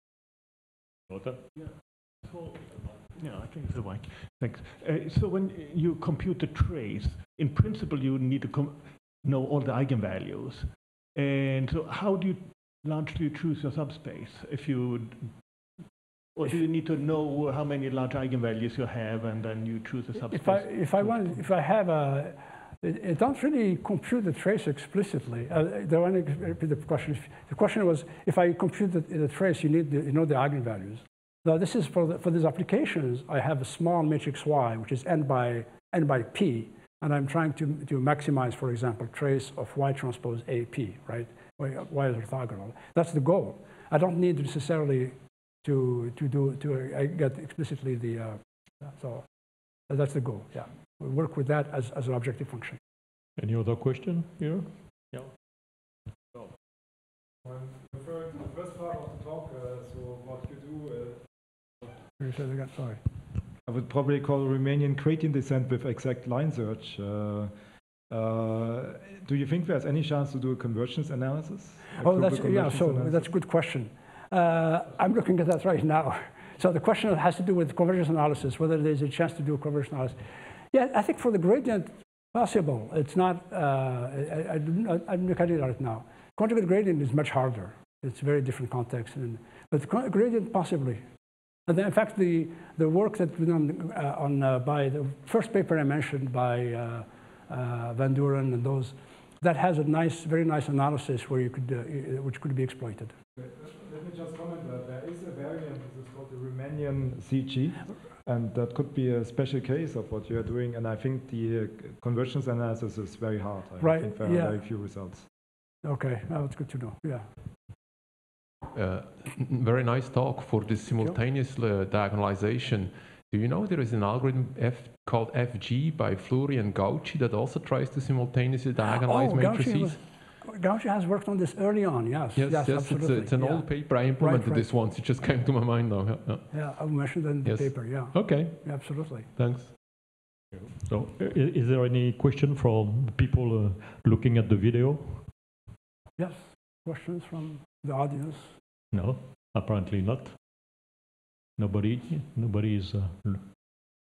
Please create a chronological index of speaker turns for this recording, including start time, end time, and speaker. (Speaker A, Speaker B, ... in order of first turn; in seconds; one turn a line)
Speaker A: 1.1-1.4
Speaker B: 1.5-15.4
Speaker B: 16.4-21.4
Speaker C: 20.2-49.3
Speaker C: 49.9-52.8
Speaker A: 53.4-55.3
Speaker D: 57.4-61.3
Speaker C: 62.2-63.0
Speaker D: 63.6-67.5
Speaker D: 68.1-73.3
Speaker C: 71.9-91.0
Speaker C: 91.7-103.1
Speaker D: 103.4-115.3
Speaker C: 113.8-114.6
Speaker C: 115.8-117.3
Speaker E: 118.7-130.0
Speaker C: 128.9-134.7
Speaker E: 132.3-136.5
Speaker C: 136.5-139.3
Speaker E: 137.4-139.7
Speaker A: 140.7-145.3
Speaker C: 146.2-148.6
Speaker A: 148.9-150.4
Speaker A: 151.6-153.9